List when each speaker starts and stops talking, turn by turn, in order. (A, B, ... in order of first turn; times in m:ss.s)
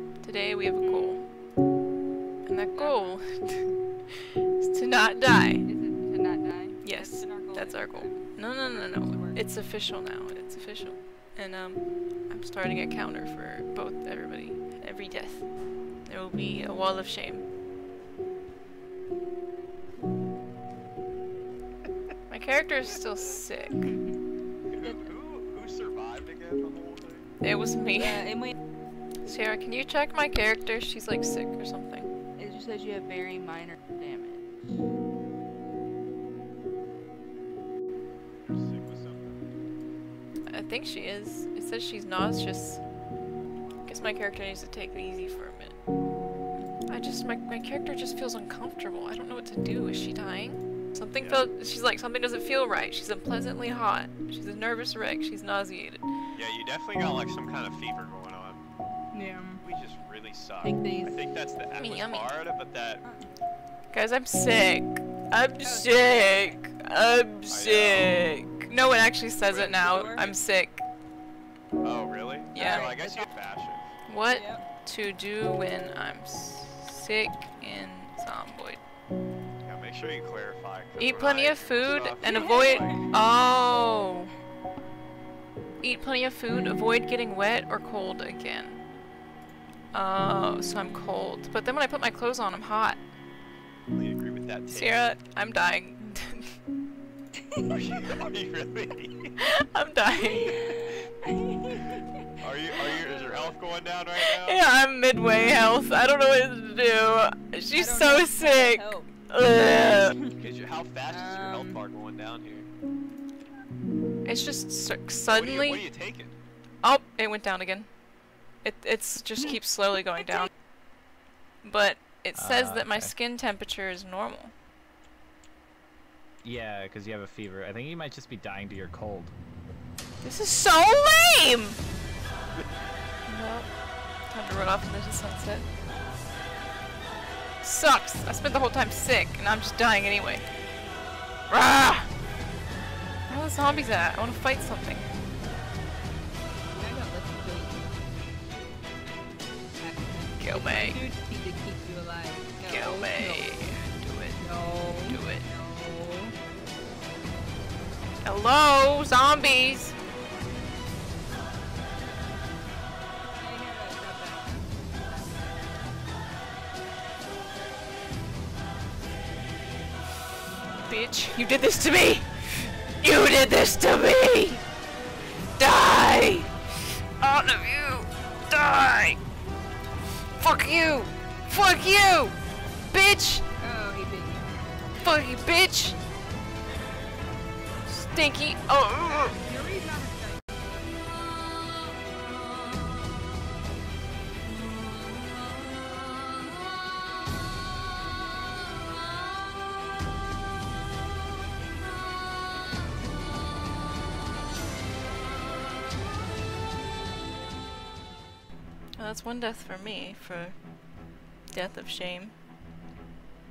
0:00.2-0:01.3 A
0:00.8-0:01.2 B
0:02.4-0:05.7 A
0:02.7-0:03.2 B
0:05.6-0:09.4 B
0:06.8-0:17.5 A
0:22.3-0:24.0 A
0:23.9-0:24.1 B
0:24.7-0:27.3 C
0:24.8-0:25.1 B
0:27.4-0:28.3 A
0:27.9-0:28.6 B
0:29.2-0:32.1 A
0:32.4-0:34.7 B
0:38.4-0:39.4 C
0:40.5-0:42.8 A
0:43.8-0:45.8 A
0:46.9-0:56.1 A
0:51.2-0:51.4 C
0:56.3-0:58.6 C
0:59.1-0:59.6 B
0:59.6-1:03.0 C
1:00.6-1:01.2 B
1:01.8-1:02.4 A
1:03.9-1:10.8 A
1:05.6-1:06.6 B
1:07.5-1:08.2 C
1:09.5-1:10.4 C
1:09.9-1:10.2 B
1:11.8-1:13.9 C
1:12.5-1:12.9 A
1:12.6-1:13.3 B
1:14.1-1:18.8 A
1:14.3-1:14.6 B
1:19.6-1:23.0 C
1:21.0-1:24.3 A
1:22.2-1:23.1 B
1:25.8-1:28.8 A
1:29.9-1:33.0 A
1:33.9-1:35.0 C
1:34.7-1:36.6 A
1:37.6-1:39.4 C
1:39.4-1:41.0 A
1:40.3-1:42.1 B
1:42.4-1:44.6 C
1:42.8-1:43.6 B
1:44.2-1:50.2 A
1:47.7-1:49.1 B
1:50.0-1:50.4 B
1:50.4-1:52.7 C
1:51.1-1:51.8 B
1:54.2-1:55.8 A
1:55.3-1:56.4 C
1:56.8-1:57.9 A
1:58.6-2:00.5 A
2:01.6-2:04.5 A
2:02.3-2:03.1 D
2:06.4-2:09.4 D
2:10.2-2:11.8 A
2:13.3-2:13.7 A
2:14.3-2:15.7 A
2:17.6-2:20.4 A
2:21.5-2:22.1 A
2:23.3-2:25.1 A
2:26.7-2:27.9 B
2:29.8-2:33.7 B
2:30.4-2:31.0 A
2:32.6-2:34.4 A
2:34.4-2:36.4 B
2:35.0-2:35.5 A
2:38.2-2:40.0 A
2:43.4-2:44.7 B
2:50.9-2:54.6 A
2:55.6-2:56.5 A
2:57.2-2:59.2 A
3:00.4-3:02.4 A
3:02.9-3:03.4 A
3:03.6-3:04.6 B
3:05.0-3:06.0 A
3:07.9-3:09.4 A
3:09.0-3:10.5 B
3:29.0-3:30.6 A
3:31.5-3:32.3 A